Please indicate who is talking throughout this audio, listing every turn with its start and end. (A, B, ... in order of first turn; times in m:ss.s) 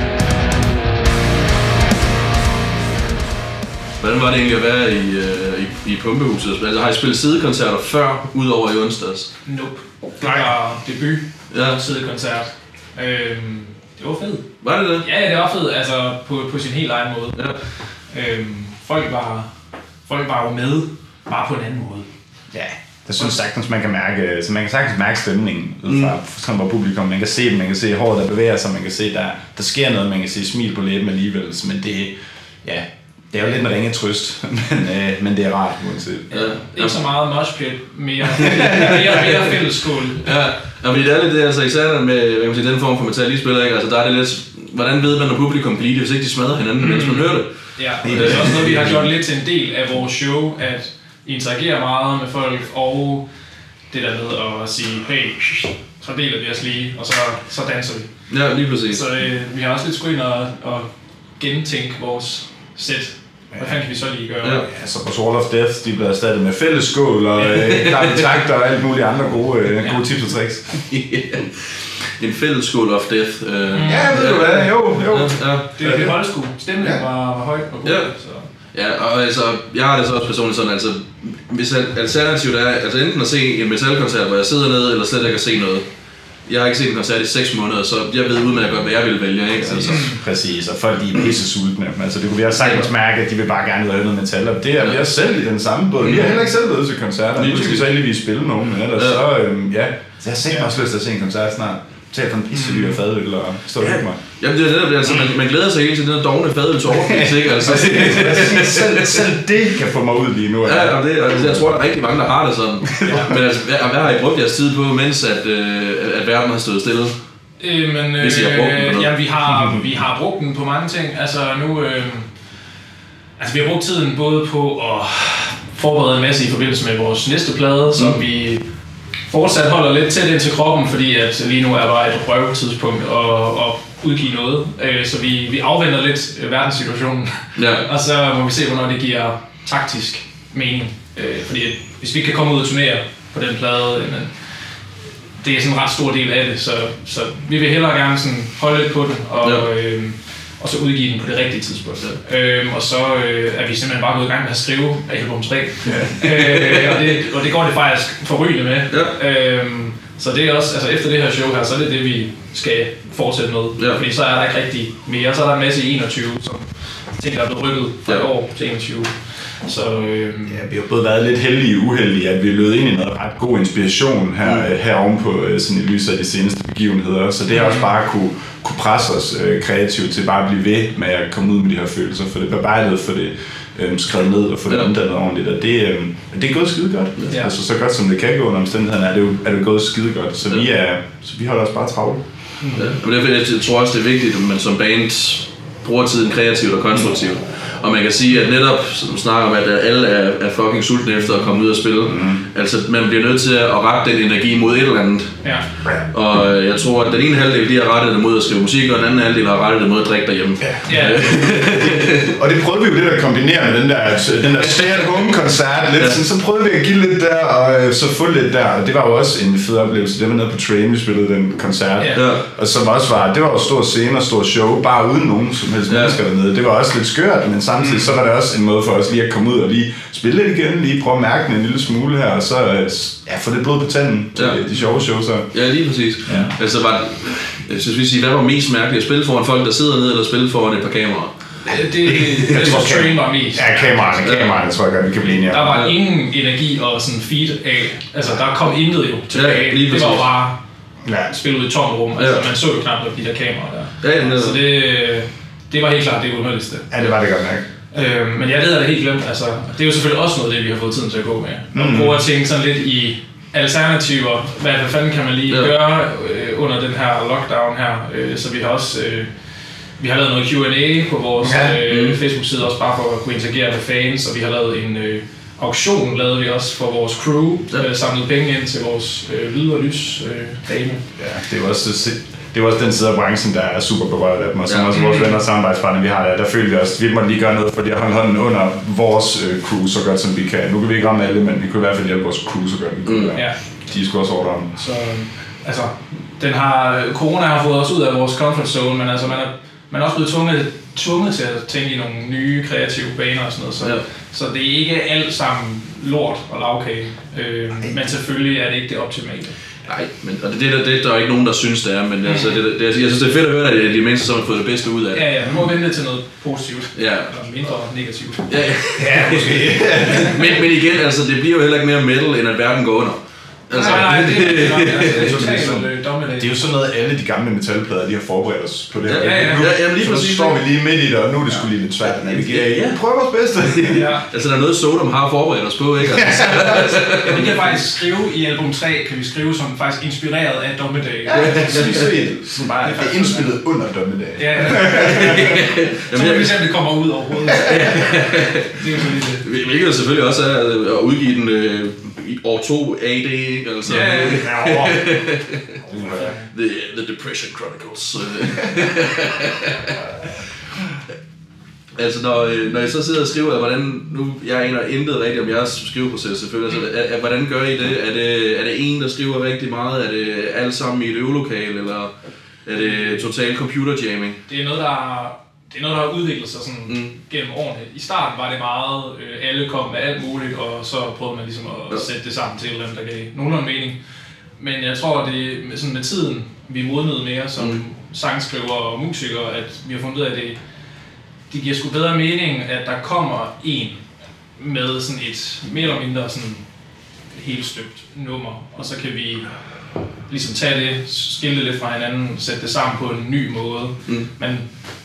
0:04.0-0:09.3 A
0:09.5-0:14.4 B
0:10.2-0:10.5 C
0:11.5-0:11.8 A
0:14.6-0:15.1 A
0:15.0-0:19.5 B
0:17.4-0:17.6 A
0:20.1-0:22.1 B
0:22.5-0:36.3 C
0:25.9-0:26.1 A
0:36.3-0:40.4 B
0:36.3-0:37.0 A
0:38.4-0:39.3 A
0:40.2-0:48.7 A
0:46.8-0:53.3 B
0:48.0-0:49.1 C
0:53.9-0:58.1 B
0:58.3-0:59.0 A
0:58.9-1:04.7 B
1:03.5-1:03.8 C
1:04.6-1:10.9 C
1:07.7-1:08.2 A
1:10.8-1:15.7 A
1:13.7-1:14.7 B
1:13.9-1:16.2 C
1:15.8-1:18.5 B
1:17.8-1:18.1 A
1:18.7-1:25.9 A
1:26.5-1:30.2 A
1:29.6-1:44.2 C
1:29.9-1:30.2 B
1:36.0-1:36.4 A
1:36.0-1:36.5 B
1:37.4-1:37.9 A
1:39.0-1:39.2 A
1:42.5-1:43.0 B
1:43.8-1:49.3 A
1:45.1-1:45.3 C
1:46.9-1:51.7 C
1:50.6-1:57.2 A
1:53.0-1:53.4 C
1:57.6-2:02.3 B
1:58.2-1:59.1 A
2:03.4-2:08.7 B
2:09.3-2:24.5 B
2:17.6-2:17.9 A
2:25.4-2:50.7 B
2:35.8-2:37.1 A
2:38.9-2:39.2 A
2:50.5-3:12.2 C
2:57.5-2:57.9 B
3:12.6-3:12.9 B
3:12.8-3:25.5 A
3:22.1-3:22.4 C
3:26.1-3:32.4 A
3:30.6-3:55.5 C
3:30.9-3:31.3 B
3:42.0-3:42.3 B
3:42.1-3:42.4 A
3:45.9-3:46.2 A
3:47.8-3:48.1 B
3:54.4-3:54.6 A
3:55.5-4:01.6 A
3:56.3-3:56.6 C
4:01.6-4:03.9 B
4:01.7-4:05.8 C
4:02.2-4:02.8 A
4:04.2-4:04.6 A
4:05.5-4:10.6 B
4:05.7-4:05.9 A
4:09.3-4:10.3 A
4:11.0-4:11.3 C
4:11.2-4:16.9 B
4:12.2-4:12.5 A
4:14.0-4:14.6 A
4:16.9-4:17.7 C
4:17.9-4:29.3 B
4:21.7-4:22.2 C
4:30.0-4:41.1 B
4:31.4-4:31.8 C
4:31.9-4:32.2 A
4:41.2-4:54.8 C
4:44.7-4:44.9 A
4:44.9-4:45.4 B
4:53.1-4:53.4 A
4:54.8-5:09.6 B
5:07.8-5:08.0 C
5:09.8-5:15.3 A
5:12.2-5:12.6 B
5:15.1-5:18.6 B
5:17.0-5:17.3 A
5:18.5-5:25.5 A
5:19.0-5:20.7 C
5:23.7-5:26.6 B
5:23.8-5:34.1 C
5:29.1-5:30.6 A
5:29.2-5:29.7 B
5:32.2-5:33.0 A
5:33.6-5:37.6 A
5:33.9-5:34.3 B
5:36.1-5:37.5 C
5:37.2-5:42.1 B
5:41.3-5:45.7 C
5:41.3-5:42.1 A
5:42.8-5:43.5 B
5:44.4-5:49.4 B
5:44.9-5:46.6 A
5:47.6-6:00.3 A
5:53.9-5:55.1 C
5:53.9-5:54.6 B
5:55.8-5:56.3 C
5:56.0-5:56.5 B
6:02.0-6:12.1 A
6:12.6-6:14.4 A
6:12.9-6:13.2 B
6:14.5-6:24.0 B
6:16.9-6:17.1 A
6:24.6-6:30.6 B
6:31.5-6:34.0 B
6:34.6-6:36.6 B
6:37.3-6:39.5 B
6:40.3-6:44.7 B